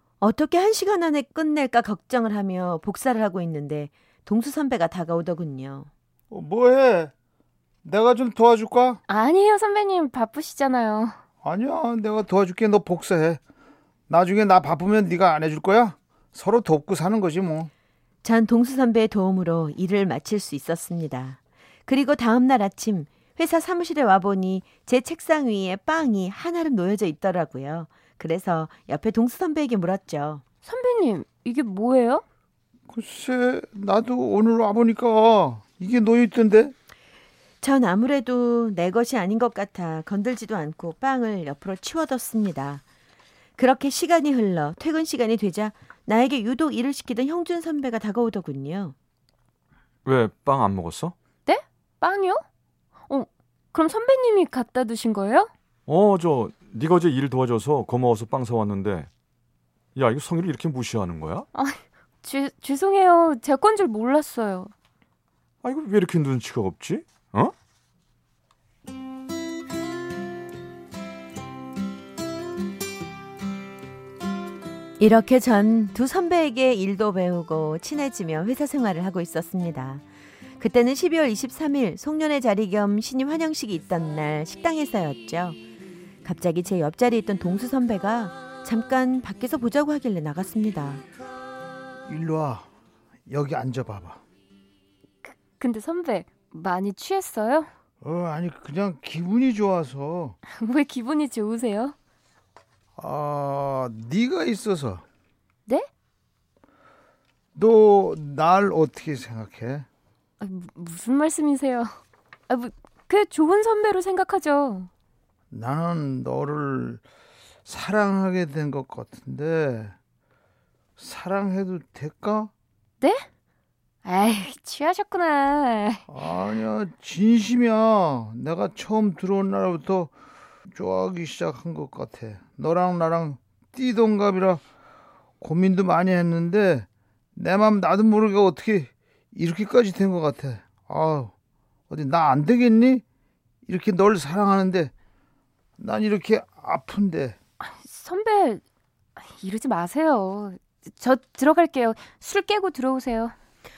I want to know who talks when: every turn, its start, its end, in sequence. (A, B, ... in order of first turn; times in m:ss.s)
0:00.2-0:05.9 A
0:06.3-0:07.1 B
0:07.8-0:09.0 B
0:09.1-0:11.2 C
0:11.4-0:13.4 B
0:14.1-0:17.7 B
0:18.2-0:30.4 A
0:30.6-0:32.2 C
0:32.9-0:36.7 B
0:37.6-0:42.8 A
0:43.6-0:49.0 A
0:50.0-0:51.1 D
0:51.5-0:52.4 C
0:53.1-0:55.5 C
0:55.9-0:59.1 D
1:00.0-1:01.5 D
1:01.5-1:04.7 C
1:05.6-1:07.5 D
1:15.0-1:20.0 A
1:20.6-1:25.6 A
1:26.2-1:31.0 A
1:32.1-1:32.7 B
1:33.3-1:34.2 B
1:35.2-1:37.7 C
1:38.0-1:40.4 B
1:40.5-1:42.0 C
1:43.0-1:45.0 B
1:47.6-1:49.9 B
1:50.4-1:54.9 C
1:55.5-1:57.0 B
1:57.7-1:59.9 B
2:01.0-2:02.5 B
2:03.0-2:03.3 C
2:04.0-2:06.0 C
2:06.1-2:10.1 B
2:10.7-2:14.6 B
2:15.4-2:21.3 B
2:21.9-2:23.0 B
2:23.7-2:24.9 B
2:25.8-2:27.4 B
2:27.6-2:28.6 C
2:29.2-2:33.4 C